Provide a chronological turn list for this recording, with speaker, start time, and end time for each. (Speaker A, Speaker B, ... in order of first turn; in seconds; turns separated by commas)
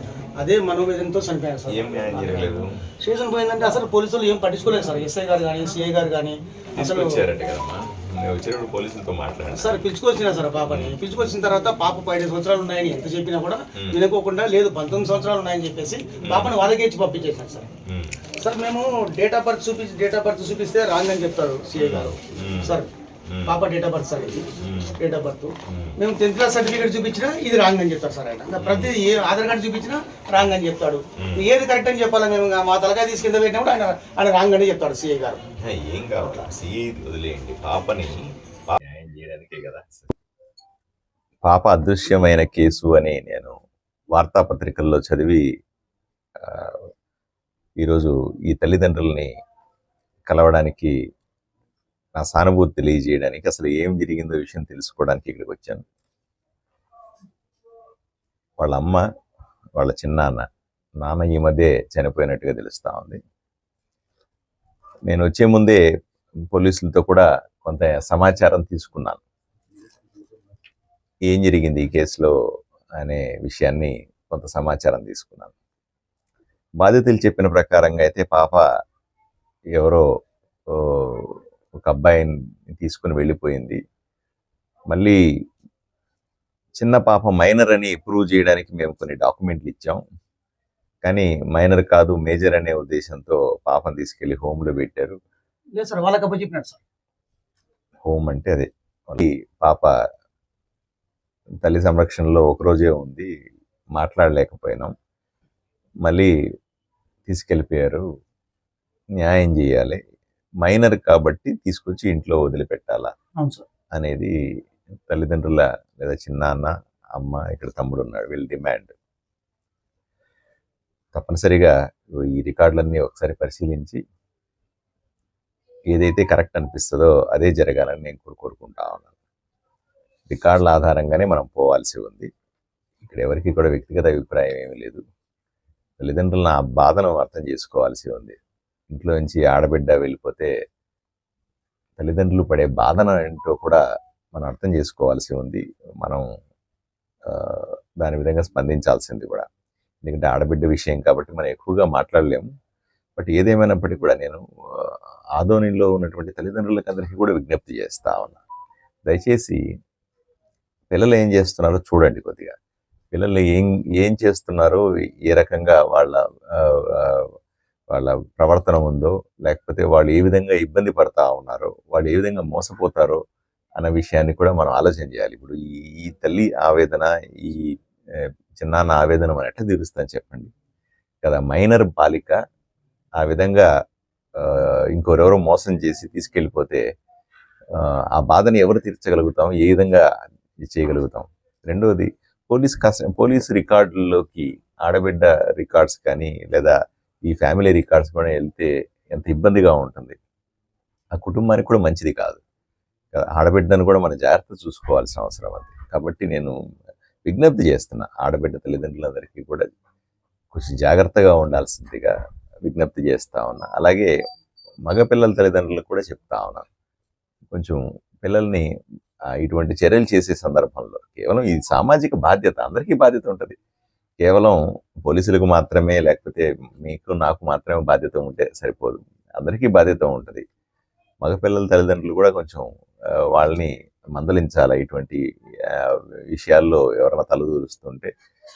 Speaker A: 0.4-7.1, Speaker B: 1.7-2.8, Speaker B: 6.8-9.8, Speaker A: 9.5-17.7, Speaker B: 10.7-11.0, Speaker B: 16.2-16.5, Speaker B: 17.9-18.2, Speaker A: 18.4-22.9, Speaker B: 21.7-23.6, Speaker A: 23.4-35.4, Speaker B: 24.6-25.0, Speaker B: 25.7-25.9, Speaker B: 28.6-28.9, Speaker B: 31.2-31.4, Speaker B: 35.6-40.1, Speaker B: 41.5-43.6, Speaker B: 44.1-45.4, Speaker B: 46.4-46.8, Speaker B: 47.8-49.3, Speaker B: 50.3-50.9, Speaker B: 52.2-55.8, Speaker B: 58.6-59.0, Speaker B: 59.8-60.5, Speaker B: 61.0-63.2, Speaker B: 65.1-65.8, Speaker B: 66.5-69.2, Speaker B: 71.3-72.3, Speaker B: 73.0-75.5, Speaker B: 76.8-78.6, Speaker B: 79.8-80.0, Speaker B: 80.7-83.8, Speaker B: 84.9-85.2, Speaker B: 86.8-90.0, Speaker B: 91.0-95.2, Speaker A: 95.8-96.8, Speaker B: 98.0-99.9, Speaker B: 101.6-103.3, Speaker B: 104.0-104.9, Speaker B: 106.0-106.3, Speaker B: 107.3-108.0, Speaker B: 109.2-110.0, Speaker B: 110.6-113.1, Speaker A: 113.4-113.7, Speaker B: 114.0-114.3, Speaker B: 115.1-118.9, Speaker B: 121.1-124.0, Speaker B: 125.9-129.1, Speaker B: 130.3-132.3, Speaker B: 133.0-135.0, Speaker B: 136.0-138.3, Speaker B: 138.9-140.5, Speaker B: 142.0-143.8, Speaker B: 144.3-146.2, Speaker B: 147.2-149.4, Speaker B: 150.0-152.4, Speaker B: 153.2-158.4, Speaker B: 159.1-159.6, Speaker B: 160.9-162.5, Speaker B: 163.1-167.3, Speaker B: 167.9-173.2, Speaker B: 173.8-180.5, Speaker B: 181.2-182.4, Speaker B: 183.2-183.7, Speaker B: 184.4-186.8, Speaker B: 187.7-190.1, Speaker B: 190.6-196.8, Speaker B: 197.3-200.2, Speaker B: 201.1-202.4, Speaker B: 203.1-206.5, Speaker B: 207.2-209.7, Speaker B: 210.5-212.1, Speaker B: 212.6-214.1, Speaker B: 214.8-216.7, Speaker B: 217.5-218.7, Speaker B: 219.4-223.6, Speaker B: 224.2-230.4, Speaker B: 231.2-232.7, Speaker B: 233.3-238.1